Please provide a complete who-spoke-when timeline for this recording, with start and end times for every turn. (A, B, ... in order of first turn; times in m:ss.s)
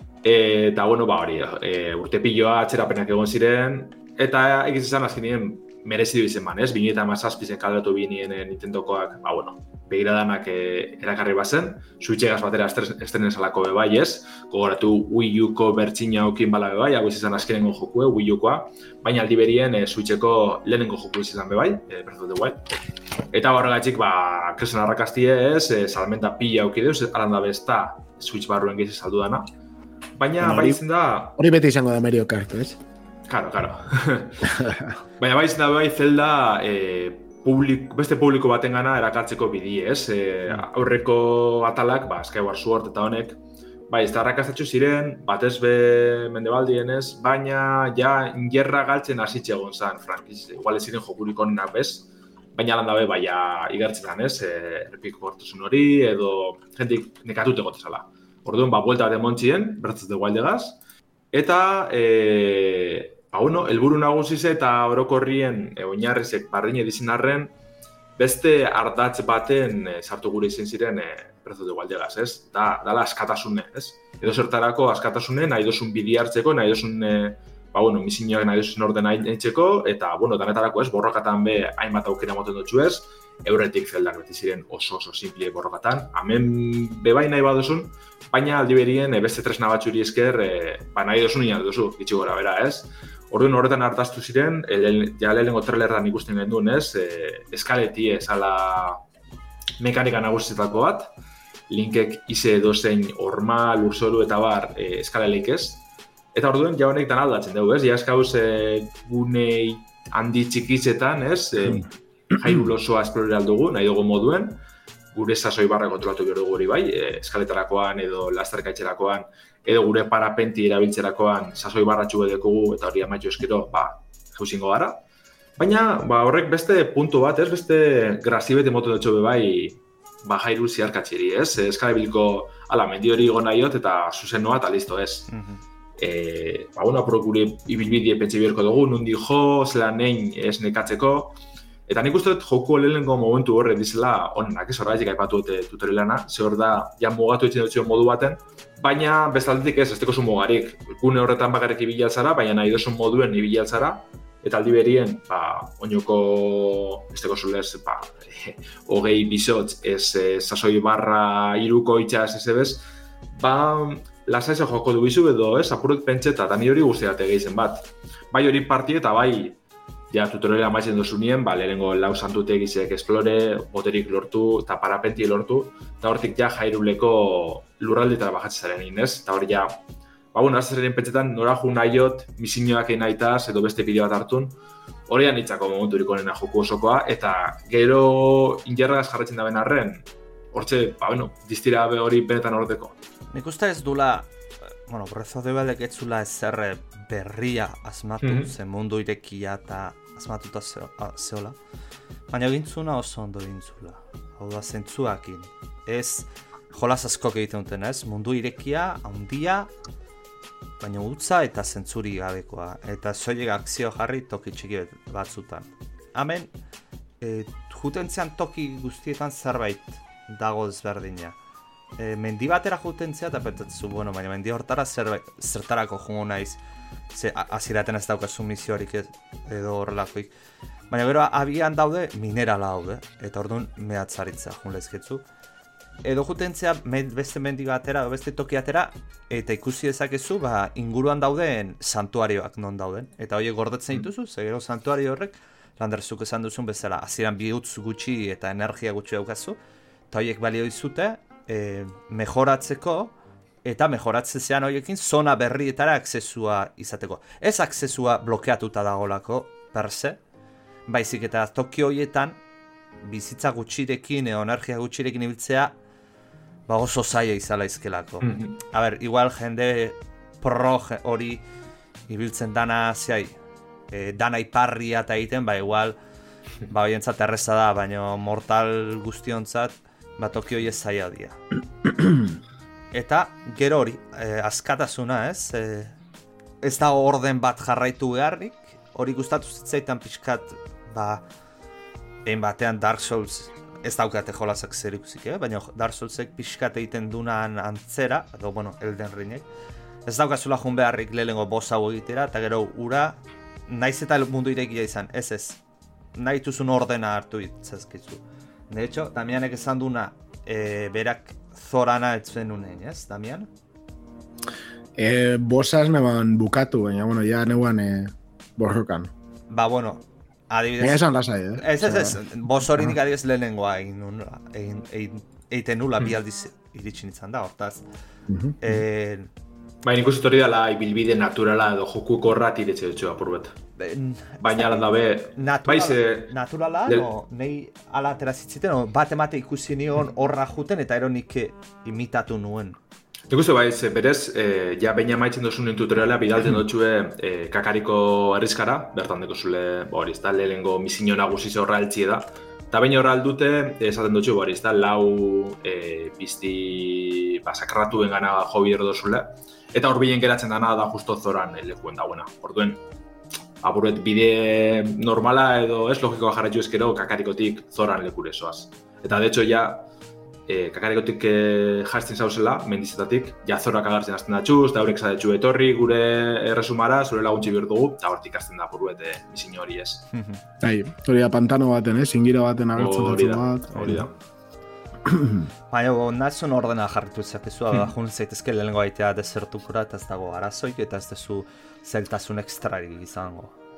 0:00.2-0:22.7 A
0:23.3-0:29.5 A
0:30.2-0:31.4 A
0:30.4-0:30.8 B
0:31.4-0:32.8 B
0:33.3-0:34.6 A
0:34.4-0:35.0 B
0:35.2-0:43.4 A
0:43.9-1:00.8 A
1:01.3-1:07.5 A
1:08.2-1:39.0 A
1:39.8-1:41.1 A
1:41.7-1:54.6 A
1:55.1-2:05.0 A
2:05.6-2:15.3 A
2:15.3-2:15.6 C
2:16.0-2:49.6 A
2:50.1-2:59.7 A
3:00.3-3:04.5 A
3:05.1-3:13.0 A
3:13.3-3:14.3 C
3:14.8-3:21.6 C
3:18.2-3:18.5 A
3:22.3-3:29.7 C
3:30.8-3:36.5 C
3:37.2-3:41.4 C
3:42.0-3:50.3 C
3:50.9-3:55.2 C
3:56.0-4:09.6 C
4:10.1-4:13.1 C
4:13.6-4:20.2 C
4:20.9-4:22.4 C
4:23.0-4:25.7 C
4:26.7-4:31.4 C
4:28.2-4:28.6 A
4:32.1-4:33.3 C
4:33.9-4:36.0 C
4:36.7-4:41.4 C
4:42.9-4:46.0 C
4:46.6-4:51.2 C
4:52.2-4:59.4 C
5:00.0-5:05.6 C
5:06.1-5:13.5 C
5:15.0-5:19.1 B
5:19.5-5:21.0 C
5:20.8-5:22.2 B
5:21.6-5:27.8 C
5:28.3-5:28.7 B
5:28.6-5:29.3 C
5:29.8-5:33.5 A
5:33.8-5:34.8 C
5:34.4-5:36.3 A
5:35.4-5:42.8 C
5:43.3-6:02.8 A
6:03.6-6:09.8 A
6:10.5-6:20.1 A
6:20.1-6:20.4 C
6:20.6-6:24.0 B
6:22.8-6:24.1 A
6:25.0-6:25.5 B
6:25.7-6:33.6 C